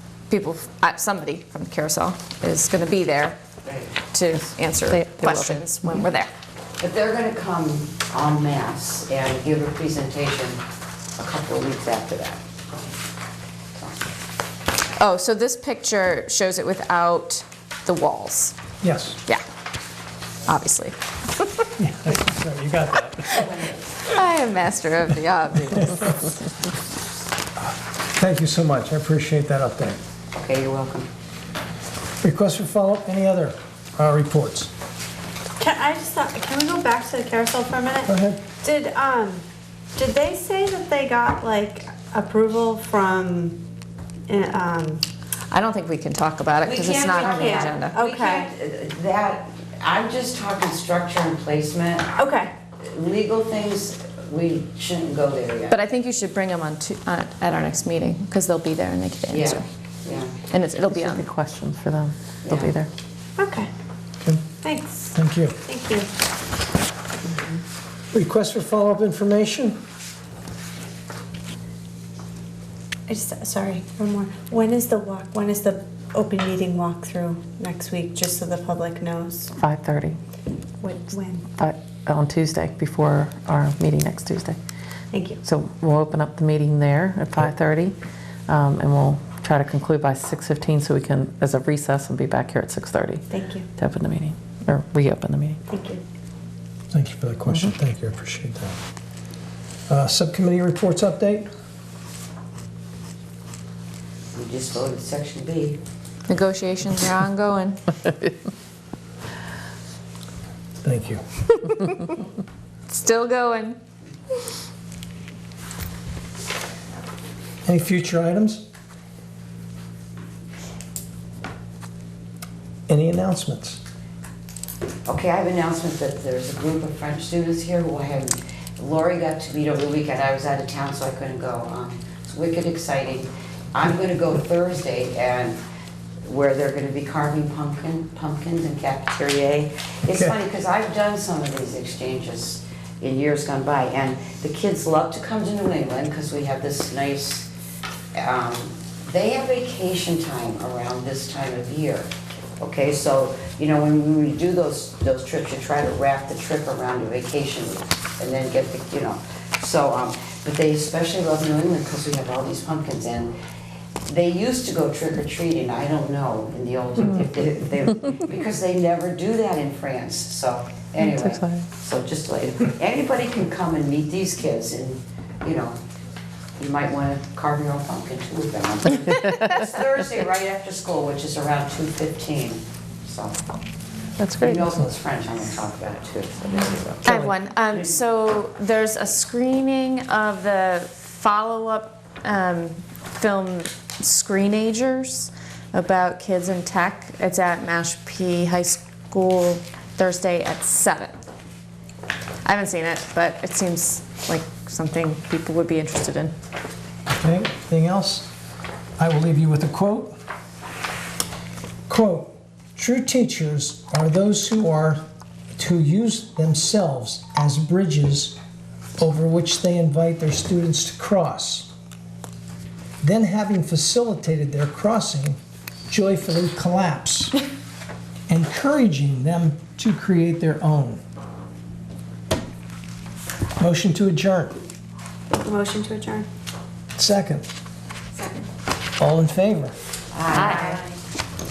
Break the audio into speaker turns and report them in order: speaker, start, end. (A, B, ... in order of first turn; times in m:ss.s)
0:00.3-0:03.4 A
0:03.6-0:03.9 B
0:04.1-0:06.3 A
0:04.8-0:05.6 C
0:06.8-0:10.6 B
0:11.2-0:12.4 B
0:13.7-0:14.1 B
0:15.0-0:18.6 A
0:18.8-0:19.2 D
0:20.4-0:21.6 A
0:21.8-0:23.5 D
0:24.1-0:26.1 A
0:27.6-0:30.0 D
0:30.3-0:31.1 B
0:32.2-0:34.7 D
0:35.6-0:39.4 E
0:38.1-0:38.4 D
0:40.0-0:43.6 E
0:44.3-0:45.0 E
0:45.5-0:48.0 A
0:46.6-0:52.2 B
0:47.1-0:48.5 E
0:52.2-0:52.5 E
0:52.7-0:55.8 B
0:55.7-0:59.6 A
0:59.3-1:00.3 B
1:00.5-1:01.2 A
1:00.9-1:02.9 C
1:02.4-1:02.7 B
1:03.4-1:03.7 E
1:04.6-1:06.1 E
1:05.1-1:05.6 D
1:08.1-1:09.8 D
1:13.1-1:19.5 E
1:19.6-1:20.2 C
1:20.8-1:21.5 E
1:21.6-1:24.6 C
1:25.1-1:25.4 E
1:25.4-1:28.0 C
1:28.5-1:33.2 C
1:33.3-1:33.7 E
1:33.8-1:35.6 C
1:35.7-1:36.0 E
1:36.9-1:38.8 D
1:37.5-1:37.7 C
1:39.9-1:41.5 D
1:44.3-1:45.8 B
1:46.3-1:47.8 A
1:50.8-1:51.2 D
1:52.9-1:53.8 A
1:57.6-1:58.6 D
2:02.9-2:03.8 D
2:05.0-2:15.6 B
2:16.2-2:27.5 B
2:28.1-2:43.3 B
2:44.0-2:55.8 B
2:51.0-2:51.6 C
2:56.6-3:03.5 B
3:04.2-3:04.7 C
3:04.4-3:07.1 B
3:07.0-3:07.4 D
3:07.0-3:21.2 A
3:22.4-3:26.3 A
3:27.1-3:28.3 D
3:29.0-3:30.1 D
3:31.9-3:35.0 D
3:35.5-3:38.4 D
3:39.0-3:41.7 D
3:43.0-3:47.3 D
3:48.3-3:51.0 D
3:53.6-3:54.6 D
3:55.3-3:56.3 E
3:57.0-3:57.4 D
3:58.1-3:58.4 E
3:59.0-3:59.7 D
4:00.1-4:00.8 B
4:00.3-4:00.8 A